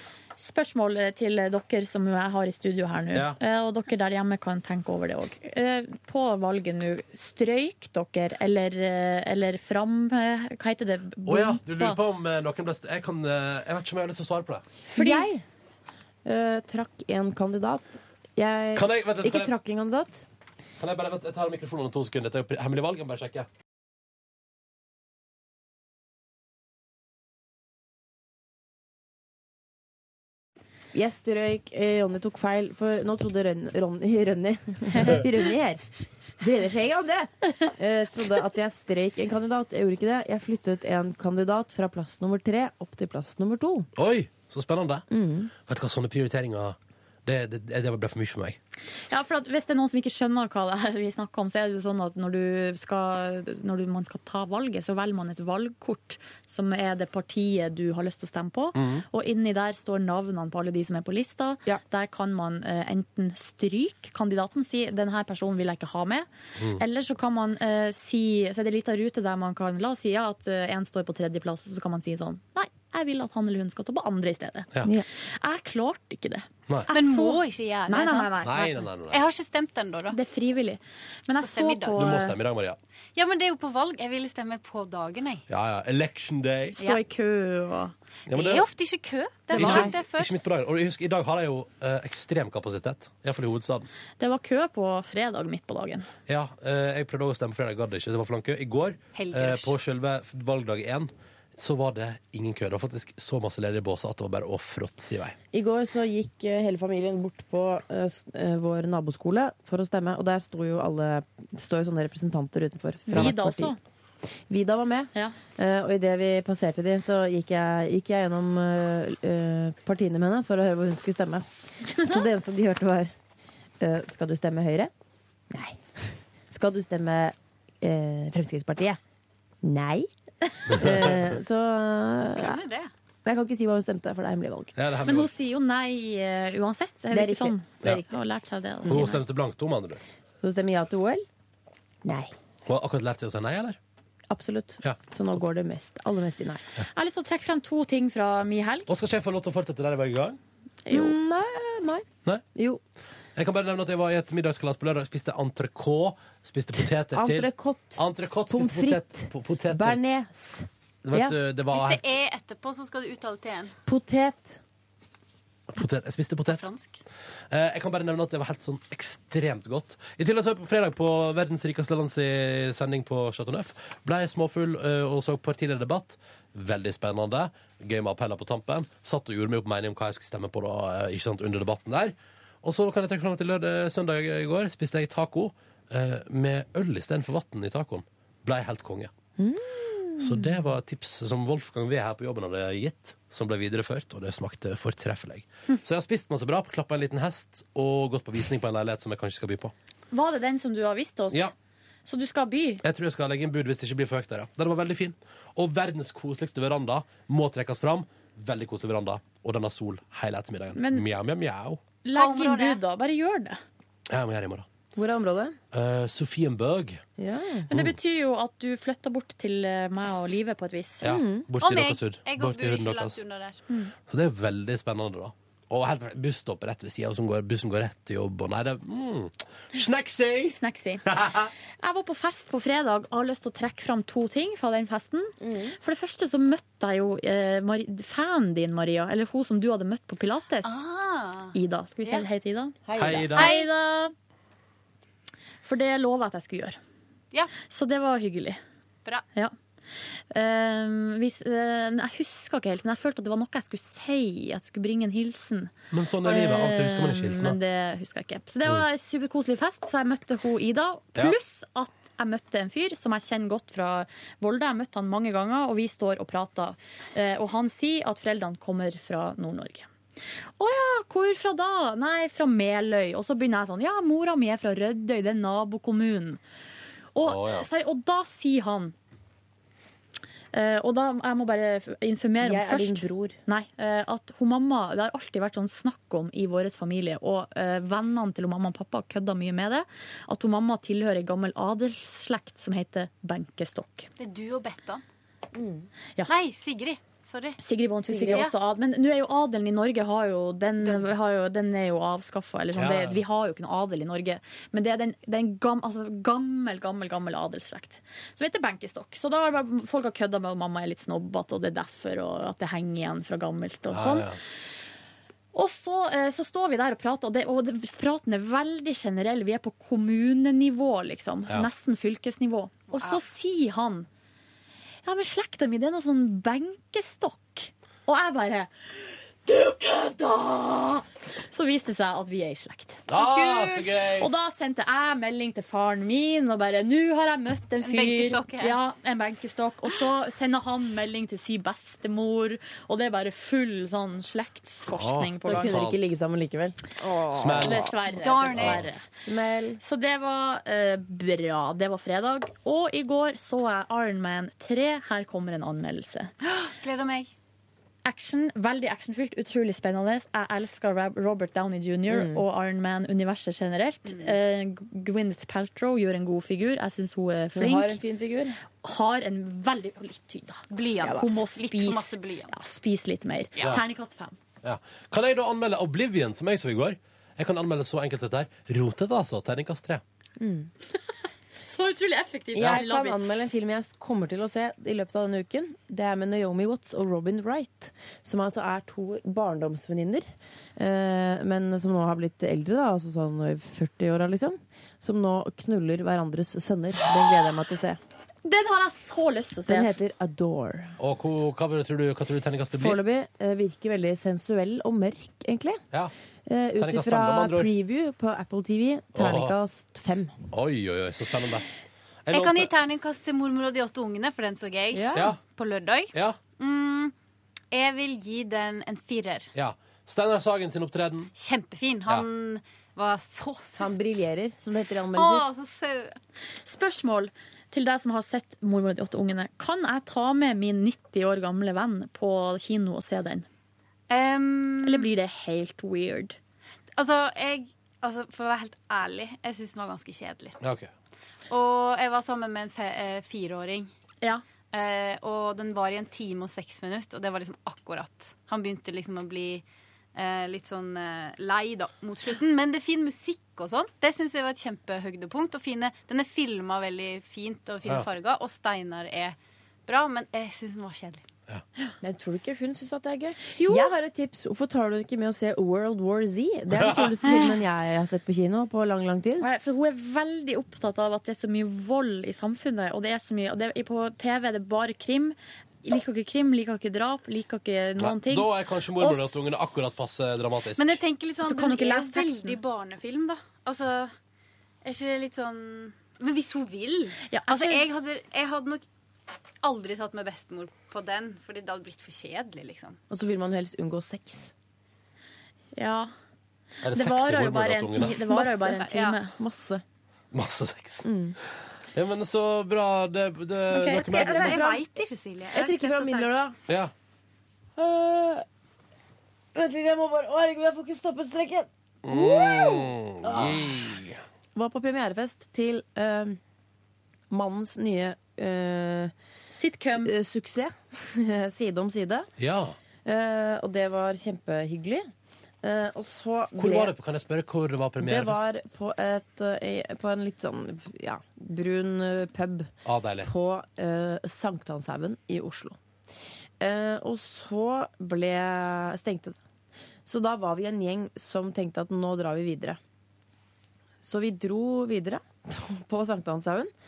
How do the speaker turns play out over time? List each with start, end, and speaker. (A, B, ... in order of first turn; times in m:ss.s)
0:00.4-0:12.0 A
0:11.3-0:14.6 B
0:14.9-0:15.3 A
0:14.9-0:15.4 C
0:16.2-0:20.2 C
0:18.8-0:19.5 B
0:20.8-0:23.5 B
0:30.9-0:35.8 C
0:36.4-0:43.9 C
0:44.0-0:45.1 B
0:45.1-0:45.5 C
0:45.7-0:48.6 B
0:49.1-1:14.7 A
0:58.8-0:59.0 B
1:15.3-1:18.7 A
1:16.9-1:20.2 D
1:18.4-1:19.2 B
1:20.1-1:22.4 A
1:21.4-1:22.2 D
1:22.0-1:22.8 B
1:23.2-1:25.4 D
1:25.5-1:26.8 B
1:26.8-1:27.9 A
1:28.3-1:28.7 B
1:28.3-1:30.3 D
1:29.5-1:33.9 B
1:29.5-1:29.9 C
1:34.2-1:36.1 A
1:36.3-1:45.4 B
1:39.2-1:39.8 D
1:45.5-1:53.8 C
1:53.1-1:53.8 A
1:54.5-2:03.1 C
2:01.9-2:02.2 A
2:03.8-2:04.9 C
2:05.5-2:09.0 C
2:09.6-2:10.1 C
2:10.7-2:12.6 C
2:10.7-2:11.3 B
2:12.4-2:12.9 D
2:13.2-2:14.7 C
2:14.8-2:15.3 B
2:15.1-2:19.2 A
2:17.1-2:18.1 C
2:18.9-2:20.0 B
2:20.4-2:21.3 C
2:22.0-2:22.3 C
2:22.7-2:23.8 B
2:24.3-2:26.6 C
2:26.9-2:28.9 A
2:28.9-2:30.4 B
2:30.8-2:31.2 A
2:30.9-2:32.8 C
2:33.4-2:40.0 B
2:36.8-2:41.4 C
2:41.0-2:42.1 B
2:41.7-2:43.7 D
2:43.9-2:44.6 C
2:45.7-2:46.7 B
2:46.5-2:47.0 D
2:47.5-3:09.1 B
3:09.4-3:10.5 C
3:10.2-3:19.7 B
3:20.1-3:21.5 A
3:22.1-3:22.8 A
3:22.8-3:31.8 B
3:30.8-3:31.1 A
3:32.0-3:33.6 A
3:32.1-3:32.8 D
3:34.1-3:34.7 B
3:35.0-3:35.6 C
3:35.7-3:37.0 B
3:37.2-3:37.7 C
3:37.7-3:41.0 A
3:41.0-3:43.2 B
3:41.0-3:41.5 C
3:41.6-3:43.6 D
3:44.1-3:51.5 B
3:50.5-3:51.0 A
3:51.8-4:00.8 A
3:55.4-3:55.8 C
4:00.6-4:02.3 D
4:01.5-4:02.8 A
4:02.8-4:03.4 C
4:03.0-4:03.5 B
4:03.3-4:04.1 A
4:03.4-4:03.7 D
4:05.6-4:06.8 A
4:07.6-4:08.6 A
4:10.3-4:15.7 A
4:15.9-4:17.6 B
4:16.2-4:29.9 A
4:30.6-4:36.4 A
4:37.2-4:38.9 A
4:37.2-4:37.7 B
4:40.5-4:54.1 A
4:42.4-4:43.4 C
4:54.2-4:55.0 D
4:55.5-4:55.9 C
4:56.3-4:57.6 D
4:57.6-5:14.3 A
4:58.1-4:58.5 C
4:58.3-4:58.5 D
5:00.8-5:01.2 D
5:02.8-5:03.2 B
5:13.9-5:14.4 B
5:15.5-5:24.1 A
5:22.9-5:23.2 D
5:25.0-5:28.7 A
5:29.5-5:45.8 A
5:33.1-5:34.3 B
5:33.2-5:33.8 D
5:37.8-5:38.8 D
5:44.9-5:46.0 B
5:45.4-5:48.3 C
5:47.3-5:47.9 B
5:47.6-5:49.1 A
5:48.1-5:48.8 D
5:48.6-5:48.8 B
5:49.1-5:49.8 C
5:49.8-5:56.3 A
5:56.4-5:57.3 D
5:58.0-6:08.0 A
6:02.1-6:02.4 C
6:04.0-6:04.4 D
6:07.5-6:08.6 C
6:08.8-6:14.4 A
6:10.7-6:12.6 D
6:11.0-6:11.4 C
6:14.6-6:20.0 B
6:20.4-6:20.7 C
6:21.6-6:23.3 A
6:22.5-6:38.0 C
6:38.4-6:40.0 A
6:39.7-6:41.0 C
6:41.0-6:43.0 B
6:42.7-6:45.8 C
6:46.5-6:50.4 C
6:46.8-6:47.7 B
6:49.2-6:49.6 B
6:50.5-6:51.7 B
6:52.2-6:52.7 B
6:52.3-6:57.1 D
6:54.9-6:55.3 C
6:56.1-6:56.4 B
6:57.7-6:59.5 D
6:59.6-7:01.3 B
7:01.4-7:03.9 D
7:03.8-7:05.5 C
7:05.1-7:06.2 D
7:06.6-7:13.5 A
7:14.1-7:15.1 D
7:14.8-7:16.4 A
7:17.0-7:20.6 D
7:20.6-7:20.9 B
7:21.5-7:23.9 D
7:24.7-7:29.6 D
7:30.2-7:41.2 D
7:42.0-7:49.5 C
7:43.5-7:43.9 A
7:46.7-7:47.1 B
7:49.4-7:59.2 A
7:58.0-8:01.0 B
8:00.8-8:04.1 D
8:01.4-8:02.6 A
8:04.8-8:08.8 D
8:07.3-8:07.8 A
8:09.6-8:13.0 D
8:13.1-8:14.5 C
8:15.8-8:16.1 A
8:16.8-8:18.2 B
8:16.9-8:19.4 A
8:18.2-8:18.8 C
8:18.6-8:19.2 D
8:19.4-8:19.8 C
8:20.3-8:21.1 B
8:21.0-8:21.4 C
8:21.9-8:24.5 B
8:23.7-8:24.0 A
8:23.9-8:24.9 C
8:24.0-8:26.3 D
8:25.5-8:26.6 C
8:27.8-8:28.4 C
8:29.5-8:34.0 C
8:32.0-8:34.2 B
8:34.6-8:36.4 C
8:37.3-8:39.1 C
8:39.5-8:40.1 A
8:39.8-8:42.3 C
8:42.4-8:42.8 B
8:43.0-8:45.1 C
8:45.6-8:46.9 C
8:46.6-8:48.4 B
8:48.0-8:52.7 C
8:52.8-8:53.3 B
8:53.2-8:55.8 C
8:56.6-8:59.4 C
9:00.0-9:02.8 C
9:04.0-9:06.7 C